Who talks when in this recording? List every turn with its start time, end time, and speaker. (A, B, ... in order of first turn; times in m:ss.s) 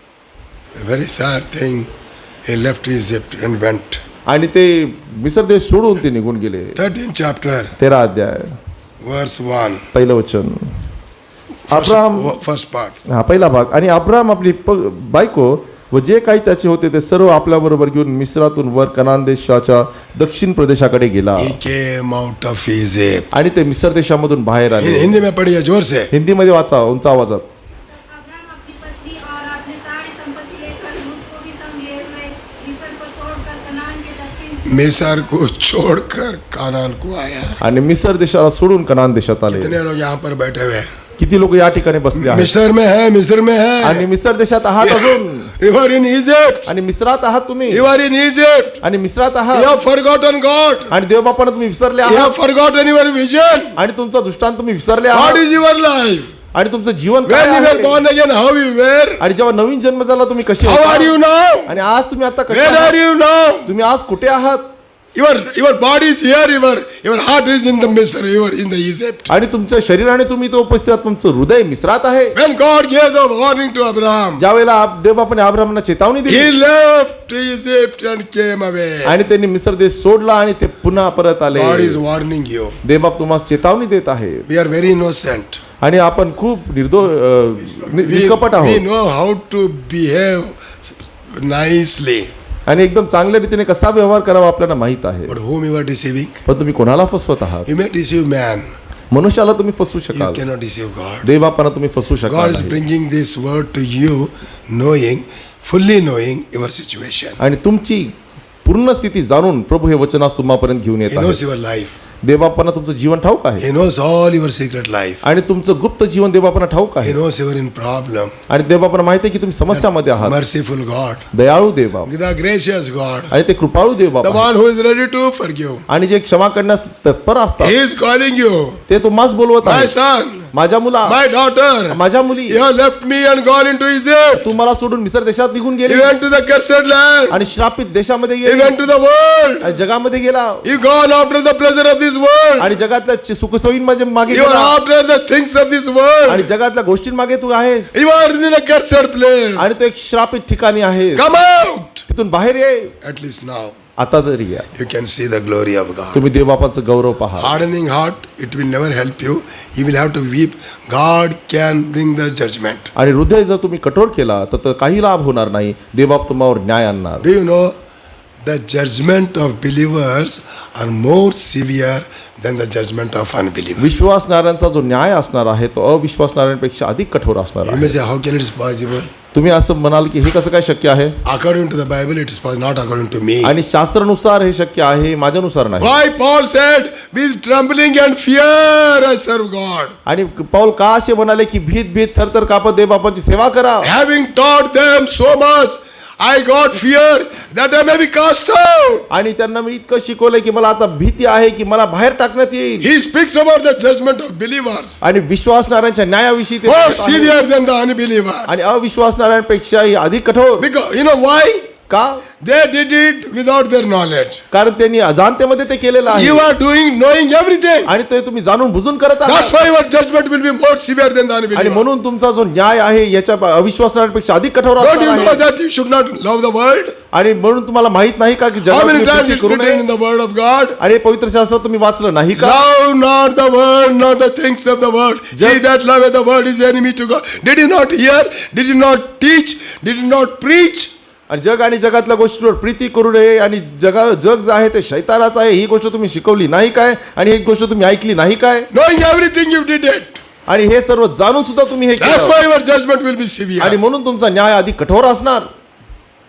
0:00.8-0:01.9 A
0:02.4-0:04.0 A
0:04.3-0:06.8 B
0:06.8-0:07.8 A
0:07.8-0:08.6 B
0:09.0-0:09.9 A
0:09.9-0:10.7 B
0:11.7-0:13.0 A
0:11.7-0:12.3 B
0:13.1-0:21.6 B
0:21.4-0:23.3 A
0:23.3-0:25.2 B
0:24.8-0:26.1 A
0:26.1-0:27.5 B
0:27.9-0:35.2 C
0:34.6-0:37.6 A
0:37.6-0:39.8 B
0:39.5-0:40.9 A
0:41.2-0:42.5 B
0:42.2-0:44.1 A
0:43.8-0:45.5 B
0:44.8-0:46.7 A
0:46.7-0:47.9 B
0:47.7-0:48.8 A
0:48.8-0:49.7 B
0:49.5-0:50.9 A
0:50.9-0:52.4 B
0:52.0-0:53.8 A
0:53.8-0:55.5 B
0:55.1-0:56.3 A
0:56.5-0:58.0 B
0:57.3-0:59.2 A
0:59.2-1:01.2 B
1:00.6-1:01.8 A
1:01.7-1:03.0 B
1:02.5-1:03.7 A
1:03.7-1:04.7 B
1:05.2-1:09.3 A
1:09.3-1:12.4 B
1:12.3-1:14.4 A
1:14.4-1:16.6 B
1:16.3-1:19.2 A
1:19.0-1:22.0 B
1:21.5-1:22.8 A
1:22.8-1:24.4 B
1:24.5-1:25.6 A
1:25.8-1:28.8 B
1:27.9-1:32.3 A
1:32.7-1:35.4 B
1:35.3-1:36.4 A
1:36.5-1:37.7 B
1:37.7-1:38.7 A
1:39.1-1:40.4 B
1:40.1-1:41.3 A
1:41.2-1:42.8 B
1:42.3-1:47.4 A
1:47.4-1:51.4 B
1:51.1-1:52.0 A
1:52.2-1:53.7 B
1:53.6-1:55.2 A
1:55.2-1:57.2 B
1:57.0-1:58.4 A
1:58.5-2:00.4 B
1:59.7-2:01.3 A
2:01.3-2:02.1 B
2:02.0-2:03.4 A
2:03.3-2:04.5 B
2:04.2-2:05.9 A
2:05.9-2:07.8 B
2:07.6-2:08.8 A
2:08.9-2:09.9 B
2:09.6-2:10.5 A
2:10.5-2:11.2 B
2:11.0-2:14.5 A
2:11.9-2:12.6 B
2:14.4-2:16.2 B
2:15.9-2:17.4 A
2:17.3-2:18.8 B
2:18.4-2:19.7 A
2:19.6-2:20.7 B
2:20.6-2:22.7 A
2:22.6-2:24.8 B
2:24.3-2:26.5 A
2:26.3-2:28.0 B
2:27.9-2:29.7 A
2:29.6-2:31.4 B
2:31.2-2:32.1 A
2:32.1-2:32.9 B
2:33.0-2:33.8 A
2:34.0-2:34.7 B
2:34.7-2:36.2 A
2:36.1-2:37.6 B
2:37.4-2:42.9 A
2:43.0-2:47.3 B
2:47.2-2:47.8 A
2:48.4-2:53.9 A
2:53.8-2:58.0 B
2:57.6-2:59.1 A
2:59.3-3:01.2 B
3:01.2-3:03.6 A
3:03.4-3:06.0 B
3:05.8-3:10.0 A
3:10.1-3:13.9 B
3:13.8-3:19.1 A
3:19.1-3:22.9 B
3:22.8-3:25.0 A
3:25.0-3:27.4 B
3:26.6-3:28.6 A
3:28.5-3:30.7 B
3:30.6-3:31.7 A
3:31.9-3:32.2 B
3:32.4-3:34.4 A
3:34.5-3:36.5 B
3:36.1-3:37.9 A
3:37.9-3:39.6 B
3:39.2-3:41.8 A
3:41.5-3:45.4 B
3:44.8-3:47.0 A
3:47.1-3:49.8 B
3:48.7-3:50.8 A
3:50.8-3:52.7 B
3:52.3-4:00.9 A
3:55.4-3:55.6 B
4:01.3-4:08.7 B
4:08.7-4:10.2 A
4:10.5-4:12.4 B
4:12.0-4:13.8 A
4:13.6-4:15.5 B